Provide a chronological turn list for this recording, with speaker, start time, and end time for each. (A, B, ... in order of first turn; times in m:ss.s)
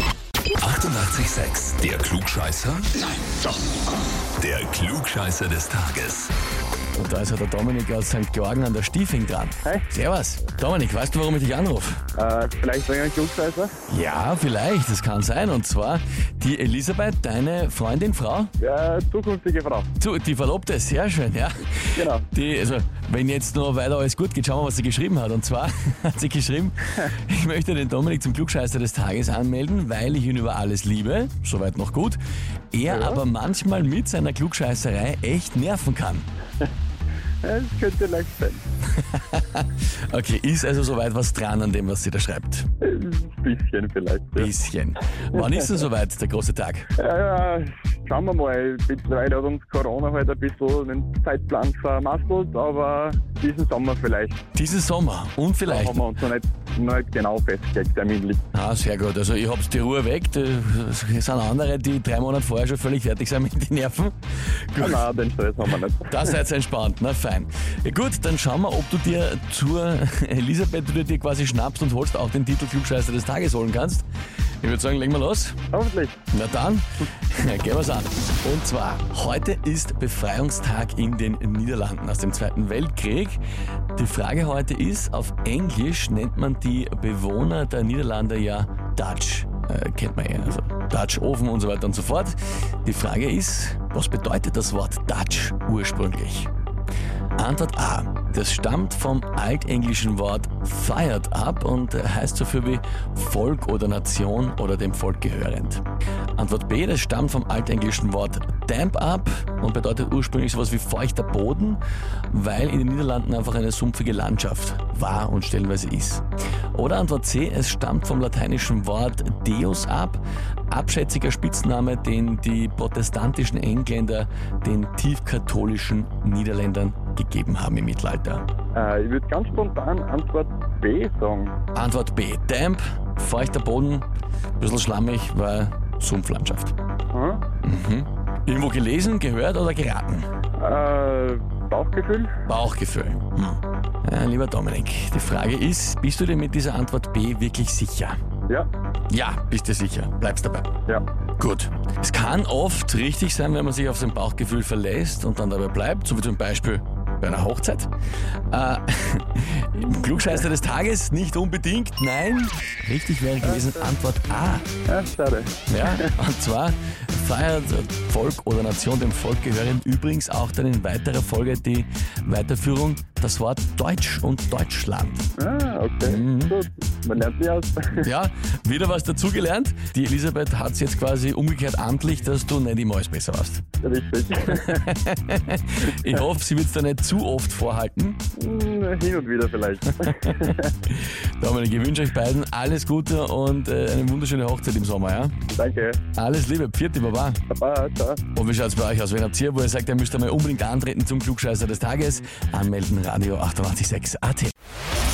0:00.6-0:03.1 A
0:04.4-0:06.3 A
0:07.0-0:12.0 B
0:12.2-0:13.8 C
0:13.9-0:18.5 B
0:18.6-0:19.9 C
0:20.0-0:32.2 B
0:22.0-0:22.3 C
0:32.7-0:36.3 B
0:32.9-0:33.2 C
0:37.4-0:38.6 C
0:39.0-0:42.7 B
0:42.8-0:44.5 C
0:44.4-0:46.9 B
0:45.3-0:45.7 C
0:47.0-0:54.4 C
0:54.5-0:56.1 B
0:55.6-0:58.4 C
0:58.5-1:04.2 B
1:04.7-1:05.0 B
1:04.8-1:06.3 C
1:06.1-1:14.0 B
1:14.6-1:15.6 B
1:15.7-1:16.2 C
1:16.3-1:23.4 B
1:24.0-1:36.5 B
1:37.4-1:45.8 B
1:46.4-2:08.4 B
2:08.7-2:11.6 C
2:11.8-2:14.1 B
2:14.6-2:16.7 B
2:17.1-2:17.4 C
2:17.6-2:20.3 B
2:20.6-2:22.4 C
2:22.5-2:28.2 B
2:29.1-2:30.7 B
2:31.4-2:37.9 B
2:38.5-2:44.7 B
2:39.9-2:40.2 C
2:43.4-2:43.9 C
2:44.9-2:46.1 C
2:45.7-2:55.3 B
2:55.4-2:58.1 C
2:56.0-2:56.6 B
2:58.0-3:03.6 B
3:03.8-3:04.8 C
3:04.5-3:08.2 B
3:08.3-3:10.8 C
3:10.1-3:15.4 B
3:15.5-3:16.0 C
3:16.2-3:17.4 B
3:17.5-3:18.2 C
3:18.3-3:24.5 B